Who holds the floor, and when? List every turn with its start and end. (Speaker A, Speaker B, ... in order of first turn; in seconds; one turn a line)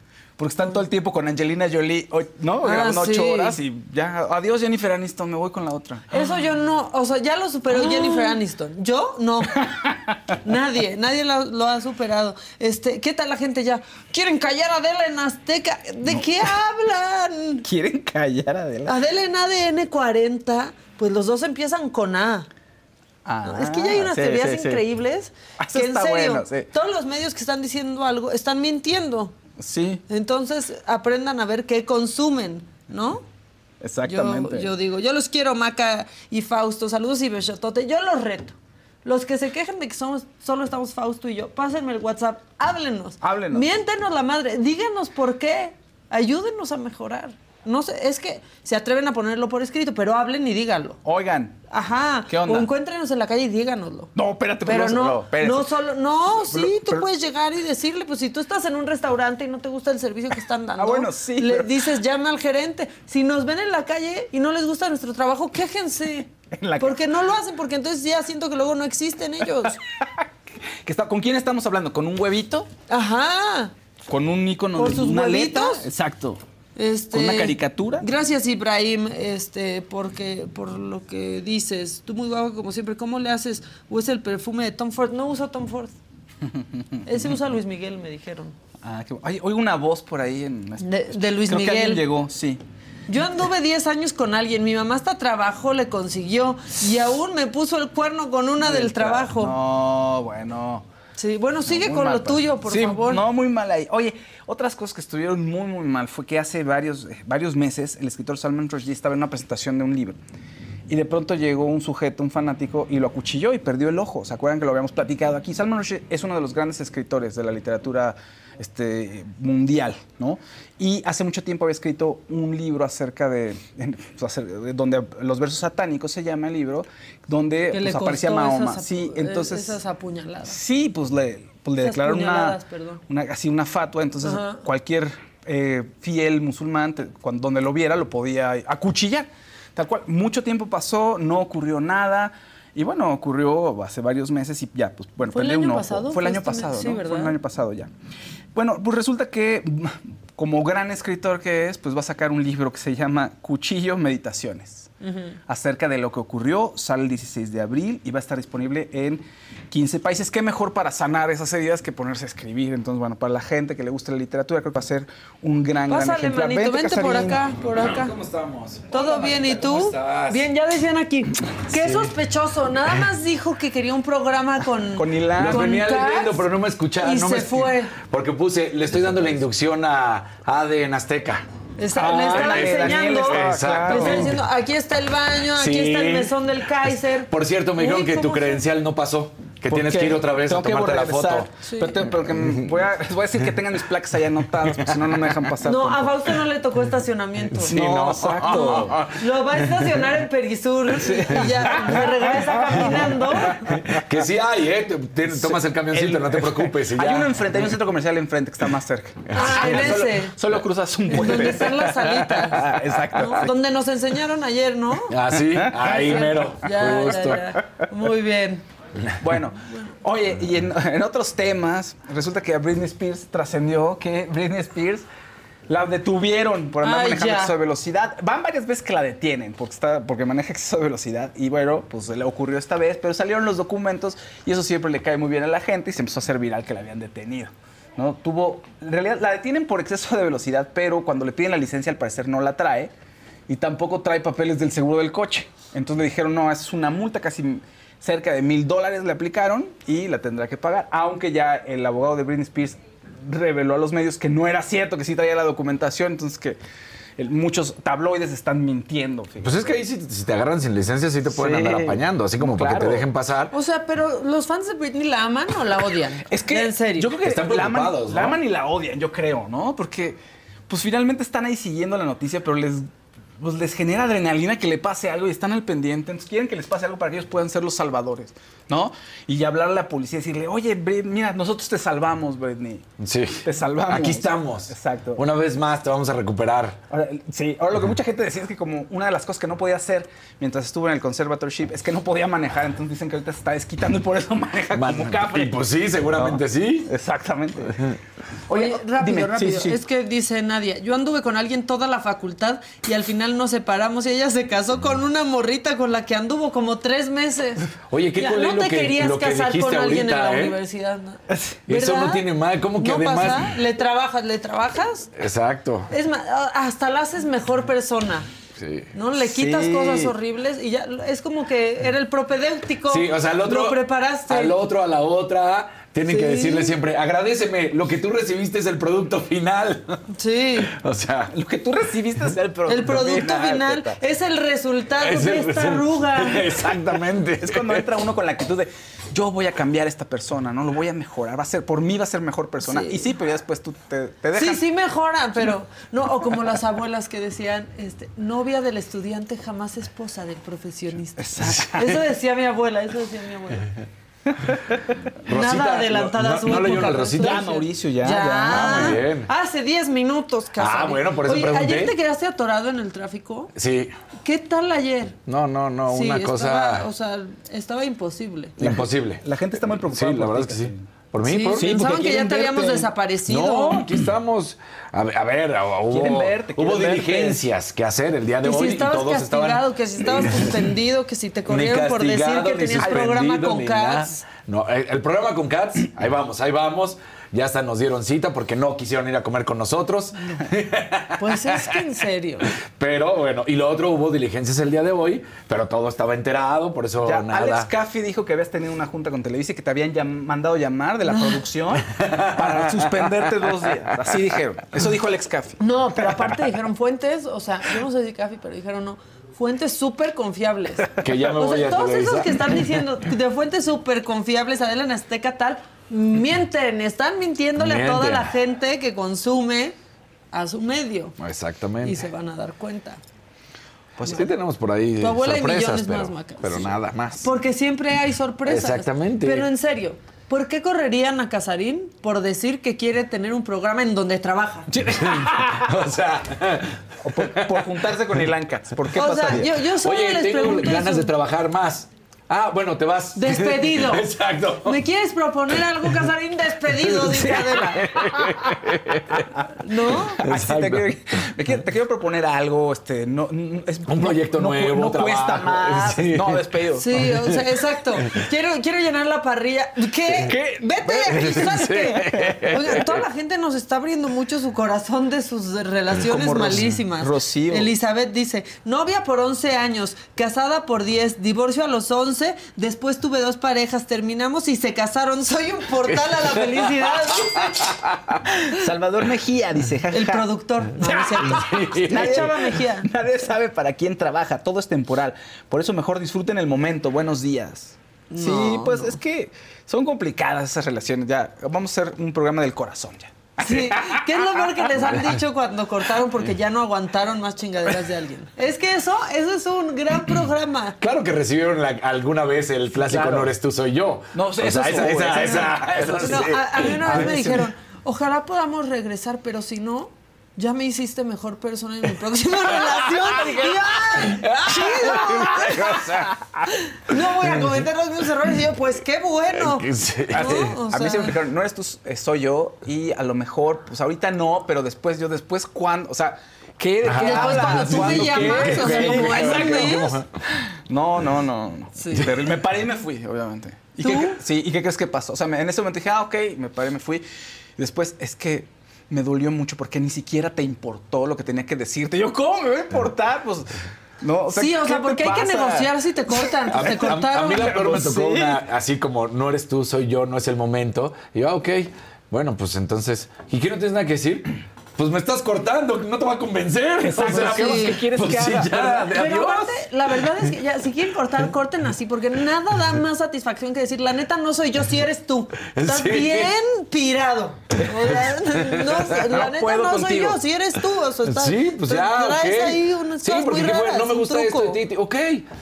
Speaker A: 0.4-6.1
Speaker B: 2.6-3.6
Speaker B: 6.1-9.6
Speaker A: 7.7-8.4
Speaker A: 9.5-10.1
Speaker B: 10.4-17.6
Speaker A: 17.6-19.0
Speaker B: 18.9-22.5
Speaker A: 23.2-24.8
Speaker B: 23.4-29.3
Speaker A: 25.6-26.7
Speaker A: 29.6-30.0
Speaker B: 30.1-33.2
Speaker A: 33.8-34.7
Speaker B: 34.1-51.0
Speaker A: 43.2-43.7
Speaker A: 51.0-51.6
Speaker B: 51.7-54.1
Speaker A: 52.3-52.7
Speaker A: 54.1-55.7
Speaker B: 54.6-69.8
Speaker A: 56.4-57.0
Speaker A: 60.8-61.8
Speaker A: 66.5-67.0
Speaker A: 69.6-70.2
Speaker A: 70.8-72.7
Speaker B: 72.9-73.7
Speaker A: 74.1-76.4
Speaker B: 74.8-75.8
Speaker B: 76.8-85.9
Speaker A: 77.1-78.0
Speaker A: 86.4-87.4
Speaker B: 87.0-88.5
Speaker A: 88.8-92.6
Speaker B: 90.8-92.0
Speaker B: 93.1-99.5
Speaker A: 98.6-100.8
Speaker B: 101.2-103.2
Speaker A: 101.7-110.2
Speaker A: 110.9-129.8
Speaker B: 127.7-130.6
Speaker A: 130.4-147.9
Speaker B: 131.8-133.0
Speaker B: 134.2-134.6
Speaker B: 145.3-147.3
Speaker A: 148.5-154.9
Speaker B: 155.0-155.4
Speaker A: 155.5-167.4
Speaker B: 165.9-168.1
Speaker C: 167.8-170.5
Speaker B: 168.9-176.4
Speaker C: 171.7-172.1
Speaker A: 174.9-175.7
Speaker C: 175.4-181.4
Speaker B: 177.0-177.9
Speaker B: 181.8-188.6
Speaker A: 181.9-184.3
Speaker C: 182.0-184.3
Speaker C: 185.6-186.3
Speaker C: 187.3-191.5
Speaker A: 189.7-196.1
Speaker B: 191.6-191.9
Speaker C: 192.4-192.6
Speaker B: 195.6-197.7
Speaker C: 197.5-199.1
Speaker A: 197.7-199.0
Speaker B: 198.4-203.7
Speaker A: 201.3-203.0
Speaker C: 203.8-207.4
Speaker A: 205.3-213.5
Speaker B: 209.3-210.3
Speaker B: 211.1-215.1
Speaker C: 215.1-217.4
Speaker A: 215.4-216.1
Speaker B: 215.8-218.6
Speaker A: 219.2-225.1
Speaker A: 225.7-242.9
Speaker B: 226.8-227.5
Speaker A: 243.5-256.6
Speaker A: 257.2-259.8
Speaker C: 259.4-263.5
Speaker A: 261.3-263.0
Speaker B: 263.5-267.1
Speaker A: 266.3-270.2
Speaker C: 267.2-268.4
Speaker A: 270.7-282.9
Speaker C: 283.0-286.8
Speaker A: 283.4-285.2
Speaker A: 286.9-295.6
Speaker C: 294.7-296.9
Speaker A: 296.1-297.8
Speaker A: 298.5-299.8
Speaker B: 298.5-307.6
Speaker C: 307.9-310.6
Speaker B: 308.1-312.2
Speaker A: 311.3-311.6
Speaker C: 311.7-313.5
Speaker B: 312.8-315.1
Speaker C: 315.2-315.9
Speaker B: 315.9-318.3
Speaker C: 318.6-318.9
Speaker B: 318.9-324.6
Speaker A: 319.4-320.0
Speaker C: 322.9-329.9
Speaker B: 326.1-326.7
Speaker B: 330.2-330.7
Speaker C: 330.7-331.3
Speaker A: 331.3-334.0
Speaker B: 332.7-336.5
Speaker C: 335.0-337.8
Speaker A: 337.4-344.6
Speaker B: 342.6-343.0
Speaker B: 344.3-353.6
Speaker A: 351.2-351.8
Speaker C: 355.3-357.4
Speaker B: 355.3-363.5
Speaker A: 357.2-359.0
Speaker C: 358.5-359.3
Speaker C: 360.6-361.9
Speaker C: 363.6-363.9
Speaker B: 364.2-365.2
Speaker C: 365.3-366.9
Speaker B: 365.9-368.6
Speaker C: 368.6-369.2
Speaker A: 368.6-370.8
Speaker C: 369.9-371.7
Speaker B: 371.2-373.9
Speaker A: 371.6-372.9
Speaker C: 373.3-380.6
Speaker A: 375.9-377.4
Speaker B: 378.4-384.2
Speaker C: 381.5-391.8
Speaker B: 391.2-392.5
Speaker C: 392.8-397.7
Speaker A: 397.0-405.6
Speaker B: 401.0-401.4
Speaker C: 402.0-402.8
Speaker B: 405.6-419.8
Speaker C: 411.0-412.8
Speaker C: 417.6-418.3
Speaker B: 420.3-421.1
Speaker C: 421.2-422.0
Speaker B: 421.8-423.0
Speaker C: 424.0-427.3
Speaker B: 425.0-434.7
Speaker C: 428.4-429.4
Speaker A: 434.8-435.6
Speaker C: 434.9-436.7
Speaker A: 437.0-439.5
Speaker B: 438.9-441.1
Speaker C: 439.8-444.8
Speaker B: 443.1-444.1
Speaker B: 444.6-447.9
Speaker A: 447.1-447.6
Speaker C: 448.0-449.2
Speaker B: 449.6-450.2
Speaker A: 450.2-456.9
Speaker C: 450.2-450.9
Speaker C: 453.9-456.4
Speaker B: 456.8-477.6
Speaker A: 460.2-460.6
Speaker C: 461.0-462.8
Speaker A: 465.9-467.7
Speaker C: 475.9-476.7
Speaker A: 478.5-480.3
Speaker B: 479.9-482.9
Speaker A: 480.8-494.1
Speaker C: 481.3-482.3
Speaker B: 488.1-488.9
Speaker B: 493.4-500.8
Speaker C: 500.8-507.1
Speaker A: 502.8-503.3
Speaker A: 504.1-507.5
Speaker B: 506.0-516.0
Speaker C: 514.2-516.0
Speaker B: 516.7-521.1
Speaker C: 519.4-520.5
Speaker A: 520.1-529.9
Speaker C: 526.8-530.0
Speaker B: 527.0-529.9
Speaker A: 530.7-537.0
Speaker B: 531.8-532.0
Speaker B: 533.8-534.1
Speaker A: 537.6-543.5
Speaker A: 544.0-545.7
Speaker B: 544.3-547.8
Speaker C: 546.5-559.5
Speaker A: 547.4-548.4
Speaker A: 556.8-558.9
Speaker B: 557.0-557.8
Speaker B: 558.9-574.6
Speaker C: 565.5-566.3
Speaker C: 567.9-568.6
Speaker A: 569.0-570.2
Speaker C: 571.0-575.2